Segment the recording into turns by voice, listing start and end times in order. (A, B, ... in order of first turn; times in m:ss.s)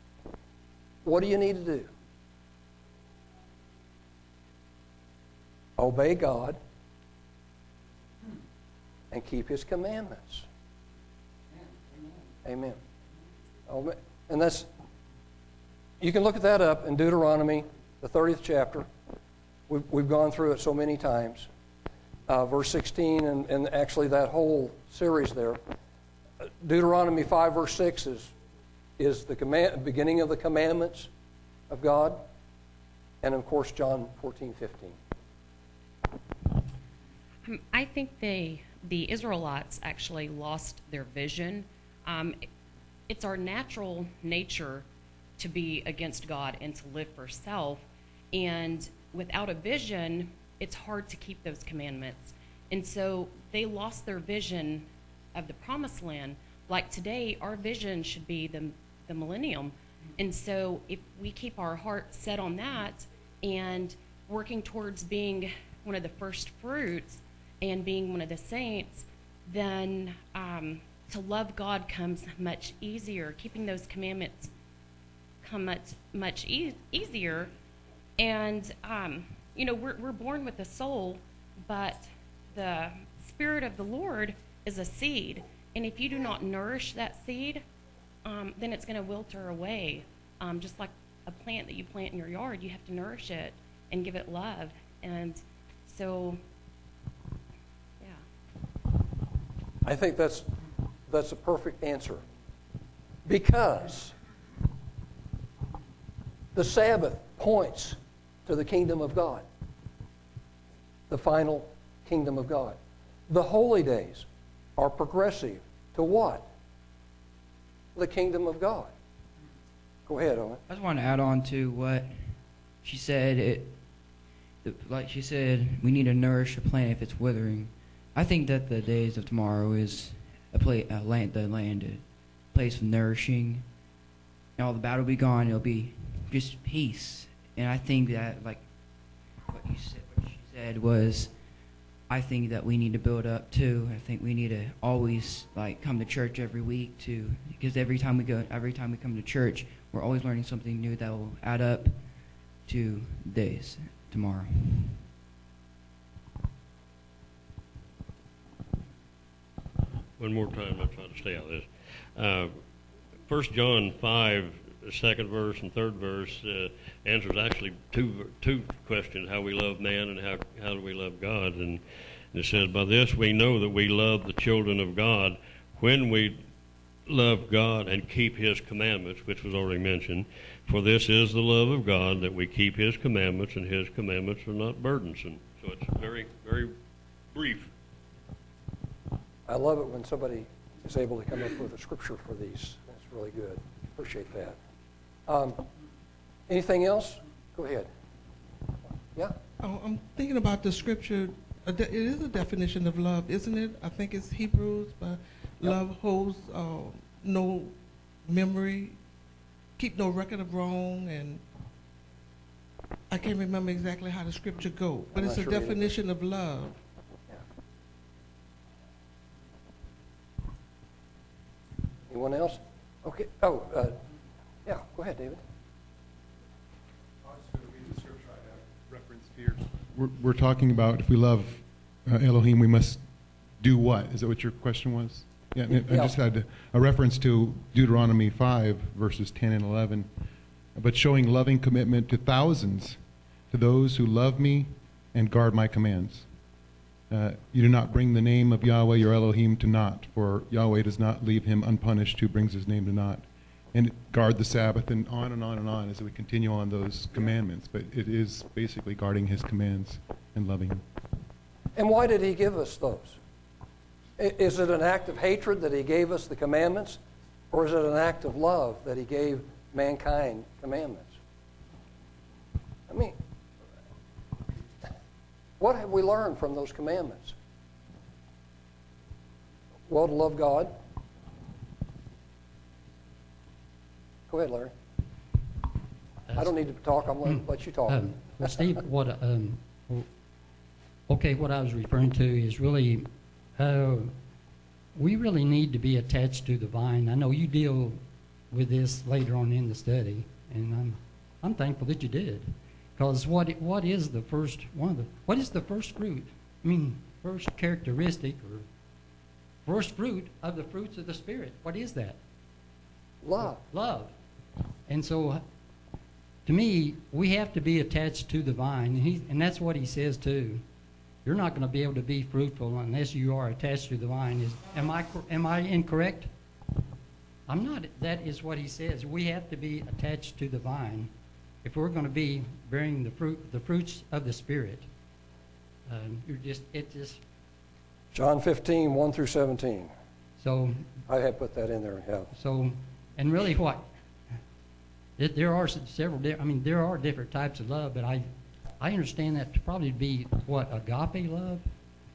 0:01.0-0:01.9 A
0:05.8-0:06.6 A
0:09.1-0:10.4 A
0:12.4-0:12.8 A
0:13.7-0:14.7 A
0:16.0-0:18.9 A
0:19.7-0:21.5 A
0:22.3-0:25.6 A
0:26.6-0:28.3 A
0:29.0-0:31.1 A
0:31.7-0:32.2 A
0:33.2-0:35.0 A
0:37.4-0:42.4 B
0:43.1-0:44.8 B
0:45.4-1:14.5 B
1:15.4-1:17.5 B
1:18.2-1:27.6 B
1:28.2-1:36.4 B
1:39.8-1:40.5 A
1:41.1-1:42.2 A
1:43.3-1:44.1 A
1:46.6-1:49.4 A
1:51.1-1:52.8 A
1:53.3-1:54.3 A
1:54.8-1:56.4 A
1:57.9-1:58.9 A
2:00.1-2:00.6 A
2:00.7-2:03.8 C
2:04.6-2:13.6 C
2:14.6-2:18.6 C
2:19.5-2:21.3 C
2:22.1-2:32.0 C
2:32.6-2:35.0 C
2:40.2-2:42.6 D
2:43.3-2:51.8 D
2:52.3-2:56.4 D
2:57.1-3:06.7 D
3:07.3-3:07.7 D
3:09.5-3:14.6 A
3:15.3-3:15.6 A
3:16.5-3:17.9 A
3:19.6-3:29.0 E
3:29.8-3:31.4 E
3:33.1-3:36.8 E
3:35.1-3:36.0 A
3:42.1-3:44.0 A
3:44.6-3:45.4 A
3:47.2-3:53.0 F
3:53.6-4:00.1 F
3:55.9-3:56.1 A
4:00.8-4:03.0 F
4:03.5-4:06.3 F
4:07.1-4:20.8 F
4:21.8-4:23.2 A
4:24.2-4:27.0 A
4:27.5-4:31.2 A
4:32.9-4:33.1 A
4:35.6-4:37.4 A
4:39.9-4:40.7 A
4:44.3-4:44.7 A
4:46.3-4:46.5 G
4:46.4-4:48.1 A
4:47.2-4:50.1 G
4:51.1-4:54.1 G
4:55.0-4:58.0 G
4:58.5-5:08.6 G
5:09.6-5:12.2 G
5:13.2-5:13.6 A
5:13.4-5:14.1 G
5:14.9-5:15.4 G
5:16.5-5:20.6 G
5:21.2-5:26.3 G
5:27.5-5:31.1 G
5:31.6-5:34.8 G
5:35.9-5:37.2 G
5:38.1-5:39.9 A
5:40.4-5:40.8 G
5:41.1-5:42.3 A
5:42.3-5:43.8 G
5:45.2-5:48.3 G
5:48.8-5:51.6 G